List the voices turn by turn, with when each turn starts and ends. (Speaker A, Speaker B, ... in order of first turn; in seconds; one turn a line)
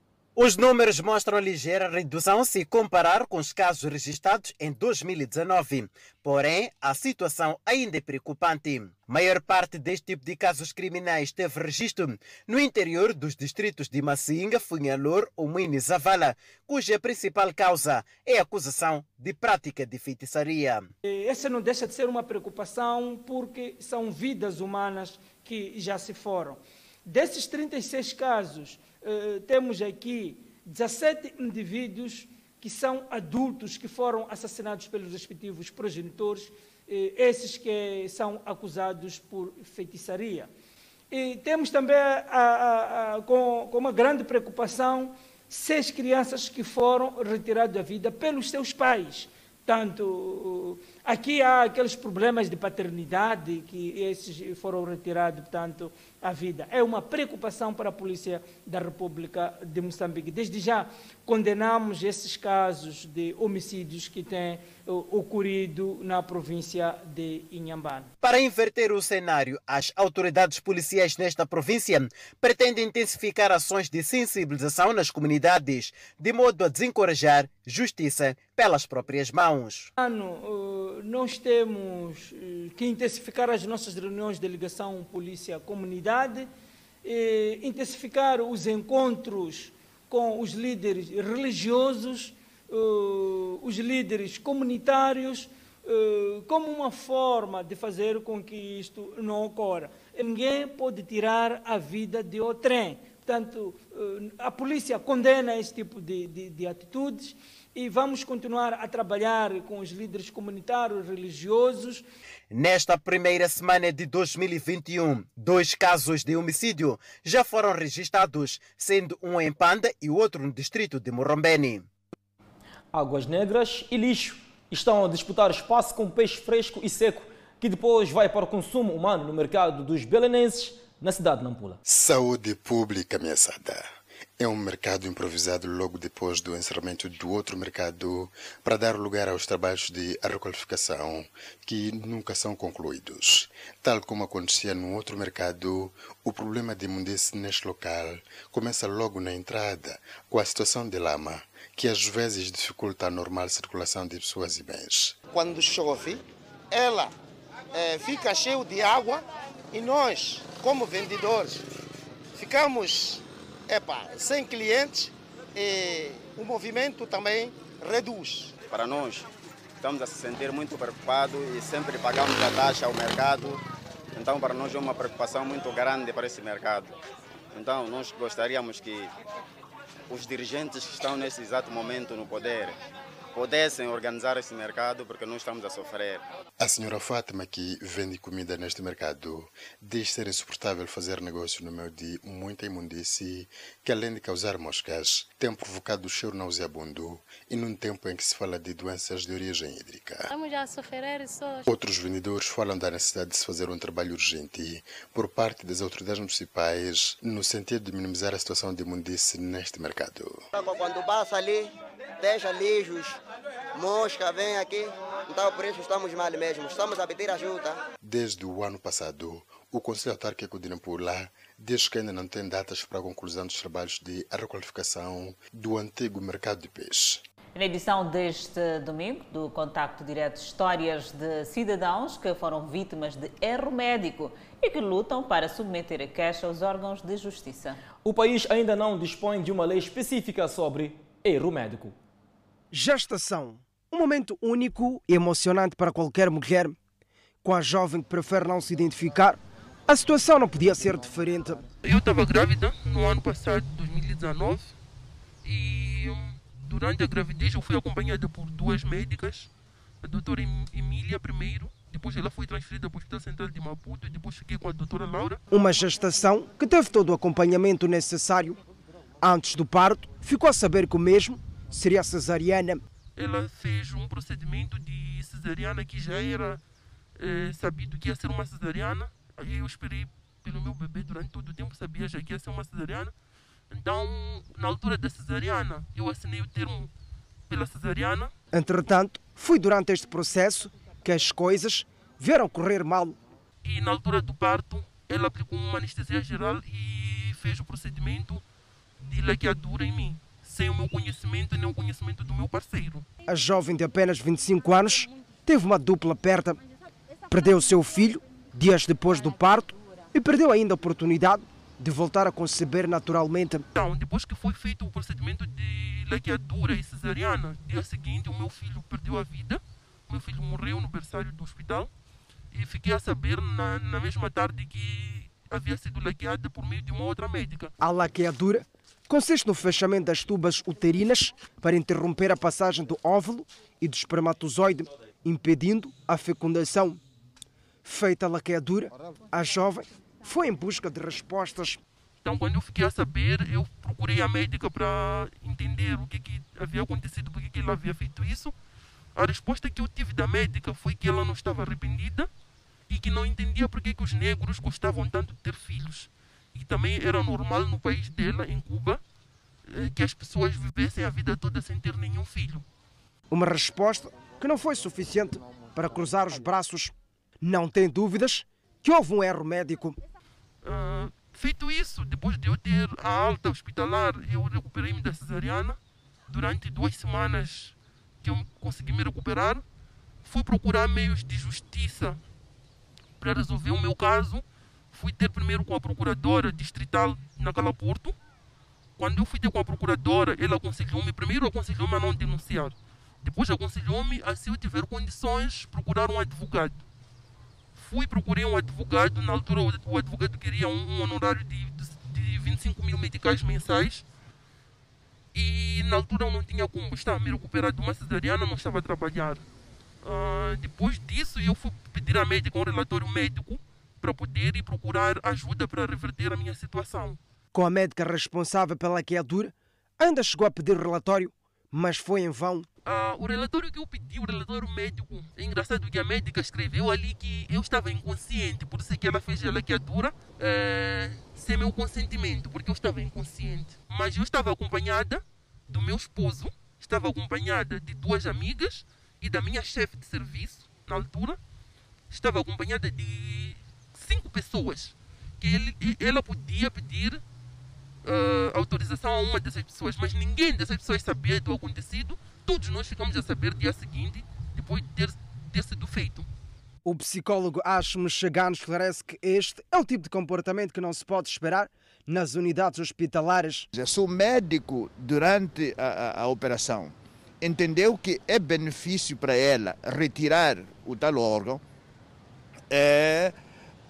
Speaker A: 0.3-20.9
Speaker B: 21.0-40.5
Speaker B: 41.1-68.1
Speaker A: 68.2-79.9
Speaker B: 80.0-86.5
Speaker B: 87.0-112.0
Speaker A: 112.5-121.8
Speaker C: 122.9-131.8
Speaker D: 131.8-133.8
Speaker D: 134.4-155.2
Speaker E: 168.7-169.3
Speaker E: 169.8-173.6
Speaker E: 174.1-176.9
Speaker E: 177.5-179.1
Speaker E: 180.1-182.8
Speaker E: 183.3-186.2
Speaker D: 186.6-200.3
Speaker D: 201.7-210.4
Speaker F: 210.6-211.7
Speaker F: 212.2-213.2
Speaker F: 213.8-217.8
Speaker D: 218.0-227.2
Speaker G: 227.5-237.8
Speaker C: 238.0-241.9
Speaker H: 242.7-246.8
Speaker H: 247.4-251.6
Speaker I: 251.8-254.7
Speaker I: 255.4-259.5
Speaker I: 260.0-265.4
Speaker H: 265.5-268.6
Speaker H: 269.2-272.8
Speaker I: 273.1-276.6
Speaker I: 277.2-283.1
Speaker I: 283.7-286.9
Speaker I: 287.5-288.3
Speaker H: 288.5-293.1
Speaker I: 293.6-298.4
Speaker I: 299.0-303.0
Speaker H: 303.3-306.6
Speaker H: 307.3-313.6
Speaker I: 313.7-321.9
Speaker I: 322.5-327.7
Speaker H: 327.8-337.0
Speaker H: 337.8-341.8
Speaker I: 342.2-348.5
Speaker I: 349.1-352.3
Speaker I: 352.9-359.0
Speaker I: 359.6-362.6
Speaker H: 363.3-370.0
Speaker I: 370.6-375.8
Speaker I: 376.3-379.6
Speaker I: 380.2-382.2
Speaker I: 383.2-388.1
Speaker I: 389.0-396.8
Speaker I: 397.7-404.0
Speaker I: 405.3-409.4
Speaker I: 410.0-417.2
Speaker H: 417.5-422.7
Speaker I: 422.9-441.4
Speaker I: 442.1-447.2
Speaker I: 448.0-456.3
Speaker H: 456.8-463.6
Speaker E: 463.7-471.6
Speaker E: 472.7-473.3